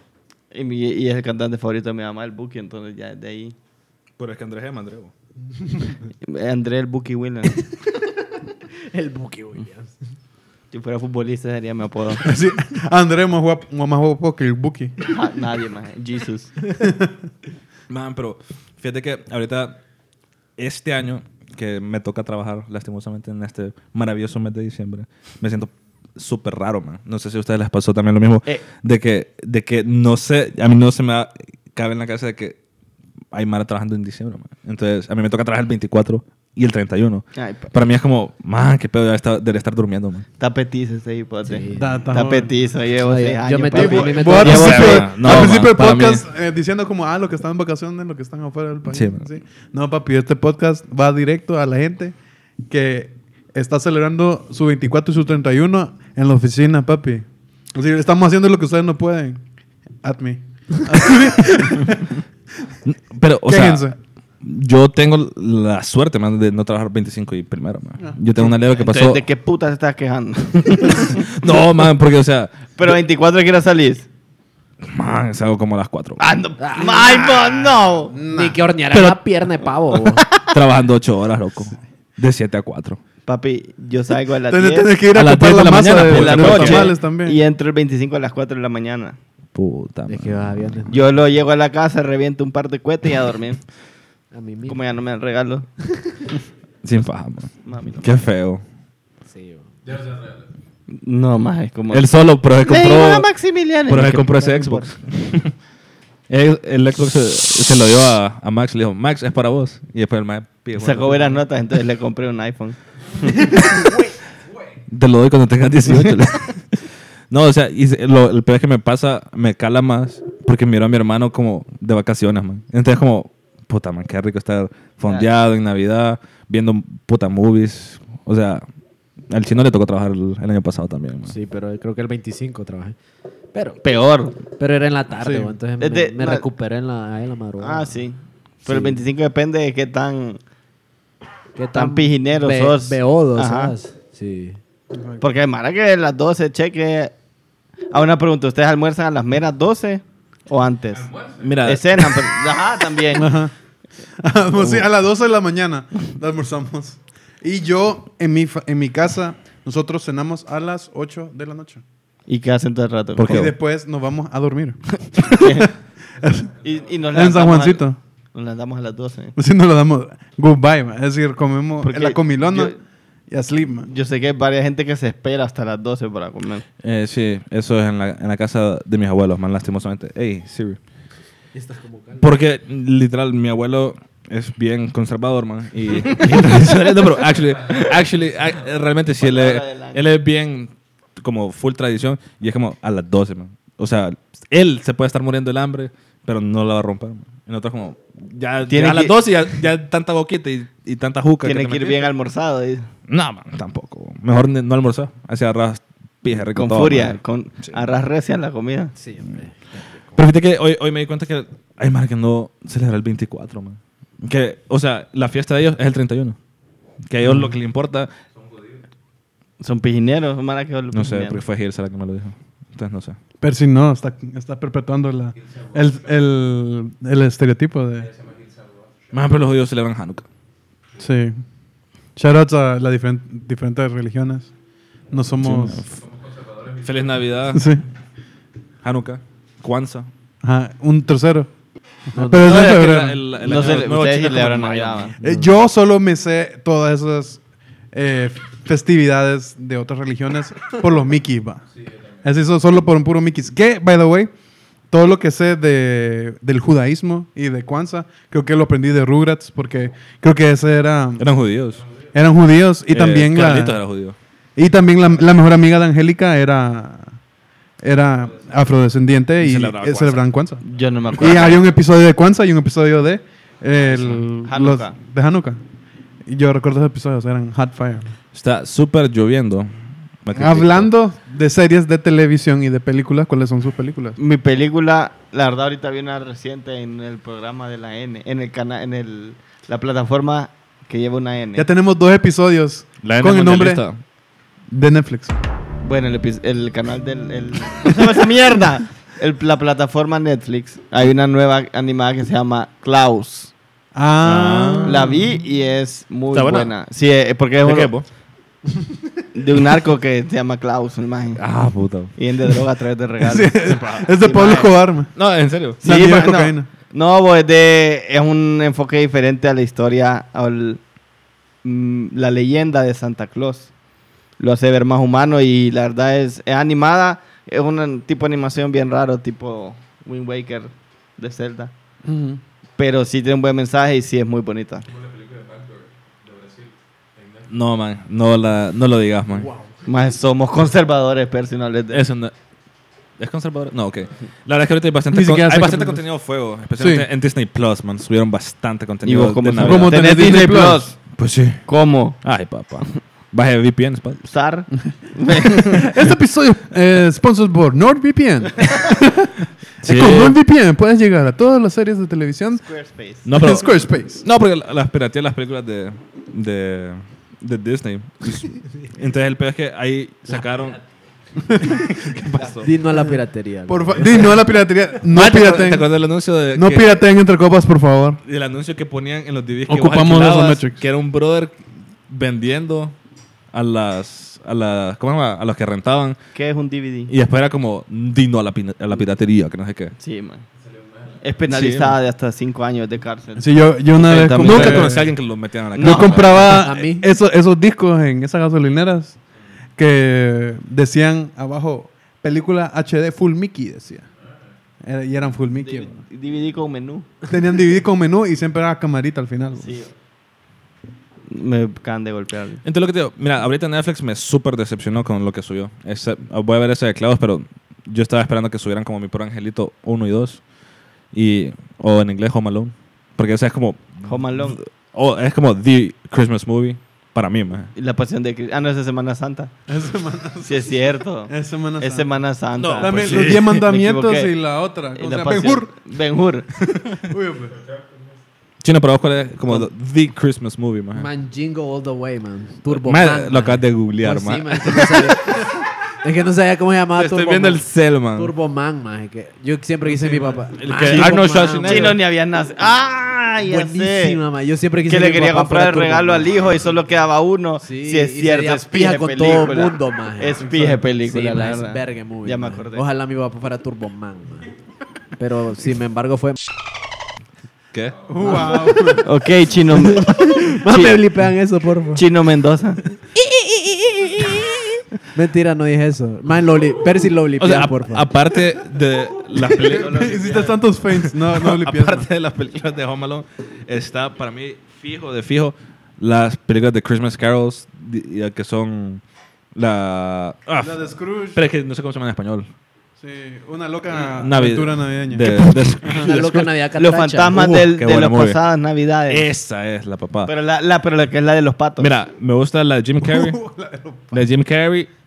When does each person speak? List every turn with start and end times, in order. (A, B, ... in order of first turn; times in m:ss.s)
0:00.5-0:03.6 A
0:04.2-0:05.1 B
0:06.2-0:07.6 A
0:07.6-0:08.1 C
0:08.9-0:09.9 C
0:10.7-0:12.3 A
0:12.2-0:15.0 D
0:15.1-0:16.6 A
0:16.8-0:17.2 D
0:17.9-0:19.8 B
0:20.6-0:32.6 B
0:33.3-0:40.2 B
0:37.4-0:37.7 A
0:40.4-0:45.7 A
0:41.4-0:42.2 C
0:41.8-0:42.5 D
0:43.0-0:44.9 C
0:43.7-0:52.2 D
0:44.4-0:46.2 B
0:48.9-0:49.3 B
0:52.7-0:59.4 D
1:00.0-1:02.2 D
1:02.8-1:09.2 B
1:03.5-1:04.0 D
1:08.0-1:08.5 D
1:08.7-1:11.3 A
1:10.6-1:13.0 B
1:12.8-1:14.1 A
1:14.8-1:16.2 B
1:16.2-1:18.2 A
1:16.6-1:17.2 C
1:18.1-1:18.6 D
1:18.3-1:20.2 C
1:20.5-1:23.0 B
1:23.3-1:25.0 A
1:24.5-1:27.4 D
1:25.1-1:26.9 B
1:26.0-1:29.2 A
1:29.5-1:30.5 B
1:30.1-1:31.0 C
1:30.9-1:33.6 A
1:34.3-1:34.8 C
1:34.7-1:35.7 A
1:36.8-1:38.6 B
1:37.6-1:38.2 A
1:39.3-1:40.3 C
1:40.9-1:44.9 A
1:41.9-1:43.3 B
1:43.9-1:45.5 B
1:46.3-1:51.4 B
1:50.8-1:53.7 A
1:53.6-1:53.8 B
1:54.9-2:08.6 B
2:09.3-2:11.4 B
2:11.3-2:13.0 C
2:13.5-2:13.8 C
2:13.8-2:14.4 A
2:14.6-2:18.0 C
2:15.2-2:15.6 D
2:15.8-2:16.4 A
2:17.6-2:20.4 A
2:18.7-2:19.0 C
2:21.6-2:24.6 C
2:21.8-2:23.7 A
2:24.9-2:25.2 D
2:25.2-2:27.1 A
2:27.9-2:33.3 A
2:31.2-2:32.3 B
2:33.1-2:33.5 D
2:34.2-2:41.8 D
2:34.6-2:34.8 A
2:42.3-2:43.5 A
2:43.2-2:43.6 B
2:43.3-2:46.5 D
2:45.2-2:45.7 A
2:46.6-2:49.4 A
2:47.1-2:48.0 D
2:49.4-2:52.8 D
2:51.8-2:52.8 A
2:53.3-2:53.9 D
2:53.9-2:56.6 A
2:56.8-3:00.8 B
3:01.5-3:02.4 C
3:02.2-3:22.1 B
3:09.2-3:10.0 A
3:18.7-3:19.4 A
3:21.4-3:22.9 A
3:23.1-3:27.8 B
3:26.6-3:28.9 A
3:29.0-3:29.8 C
3:30.2-3:36.4 B
3:37.0-3:38.1 B
3:39.6-3:41.4 A
3:40.9-3:43.2 B
3:43.4-3:48.2 D
3:49.1-3:50.3 B
3:51.0-3:51.4 D
3:52.2-3:54.5 D
3:55.1-3:55.8 D
3:55.4-3:56.1 B
3:56.6-3:57.7 B
3:57.5-3:57.8 D
3:58.8-4:00.1 B
4:00.4-4:01.5 D
4:02.1-4:03.2 D
4:02.2-4:02.5 C
4:02.4-4:05.2 B
4:02.5-4:02.8 A
4:03.4-4:05.2 A
4:05.2-4:05.5 C
4:05.2-4:11.7 D
4:12.2-4:14.3 D
4:14.9-4:21.3 D
4:21.2-4:21.9 B
4:22.1-4:23.8 D
4:22.9-4:24.2 B
4:24.6-4:27.2 D
4:27.8-4:30.6 D
4:29.4-4:30.3 B
4:30.6-4:31.6 A
4:31.2-4:35.6 D
4:31.3-4:31.5 B
4:34.4-4:35.0 A
4:36.3-4:38.2 D
4:38.3-4:39.7 B
4:40.2-4:40.9 B
4:40.4-4:44.2 D
4:44.2-4:51.7 A
4:51.6-4:53.8 D
4:53.0-4:54.0 B
4:54.7-4:55.4 D
4:55.8-5:03.5 A
5:03.9-5:05.2 D
5:04.2-5:05.1 B
5:04.8-5:07.9 A
5:06.3-5:06.7 B
5:07.6-5:08.1 B
5:09.3-5:11.4 A
5:11.4-5:12.2 B
5:12.2-5:14.8 A
5:13.2-5:15.1 D
5:13.6-5:14.1 B
5:15.2-5:15.8 B
5:15.8-5:16.7 D
5:15.8-5:20.8 A
5:21.6-5:23.7 A
5:24.4-5:31.7 A
5:32.0-5:32.4 D
5:32.8-5:34.9 A
5:37.4-5:39.5 B
5:39.4-5:39.8 C
5:39.9-5:42.0 A
5:41.9-5:42.4 B
5:43.2-5:50.2 B
5:45.1-5:46.0 D
5:46.8-5:47.1 D
5:49.0-5:51.0 A
5:49.6-5:50.9 D
5:51.2-5:51.6 B
5:51.7-5:52.2 A
5:52.2-5:54.3 B
5:54.3-5:55.9 A
5:55.6-6:02.6 D
5:59.8-6:00.4 B
6:02.6-6:03.4 A
6:03.2-6:10.8 B
6:03.3-6:04.2 D
6:11.5-6:11.8 D
6:11.6-6:12.7 B
6:12.6-6:14.3 C
6:13.7-6:15.9 D
6:15.0-6:16.9 B
6:16.5-6:18.2 D
6:18.2-6:23.0 B
6:19.7-6:20.8 D
6:23.5-6:26.2 B
6:26.4-6:27.1 A
6:27.1-6:30.0 B
6:30.0-6:30.4 A
6:31.2-6:35.0 A
6:31.5-6:32.0 B
6:33.4-6:35.2 D
6:34.0-6:36.8 B
6:35.8-6:36.5 A
6:35.8-6:39.2 D
6:36.5-6:37.1 C
6:39.8-6:44.1 D
6:44.8-6:46.0 D
6:45.6-6:47.1 A
6:47.2-6:49.8 D
6:49.6-6:49.9 A
6:51.3-6:52.6 A
6:52.6-7:00.4 B
7:01.1-7:07.7 B
7:04.1-7:04.6 A
7:07.8-7:09.5 A
7:09.7-7:10.7 D
7:10.4-7:14.3 A
7:11.3-7:12.1 D
7:12.6-7:13.6 B
7:12.8-7:15.7 D
7:14.9-7:16.5 A
7:17.0-7:17.6 D
7:18.6-7:21.1 B
7:20.9-7:25.5 C
7:22.7-7:25.0 B
7:26.0-7:31.9 C
7:27.0-7:28.3 B
7:30.6-7:32.0 B
7:30.9-7:34.2 A
7:33.4-7:36.5 C
7:34.9-7:42.8 A
7:37.6-7:44.5 C
7:40.4-7:40.8 D
7:45.2-7:46.4 C
7:47.7-7:48.4 B
7:48.1-7:49.1 D
7:48.2-7:49.0 C
7:49.0-7:51.0 A
7:49.7-7:52.1 C
7:52.0-7:52.8 A
7:55.1-7:58.1 C
7:57.4-8:00.2 B
7:59.5-8:00.6 A
7:59.8-8:02.1 D
8:00.9-8:09.0 B
8:09.5-8:12.5 B
8:10.6-8:11.4 D
8:13.0-8:16.1 D
8:13.9-8:16.5 B
8:15.9-8:17.4 C
8:16.8-8:19.3 A
8:17.3-8:18.4 B
8:19.1-8:20.3 B
8:20.3-8:21.9 A
8:21.8-8:23.4 B
8:23.0-8:24.2 D
8:24.1-8:24.9 B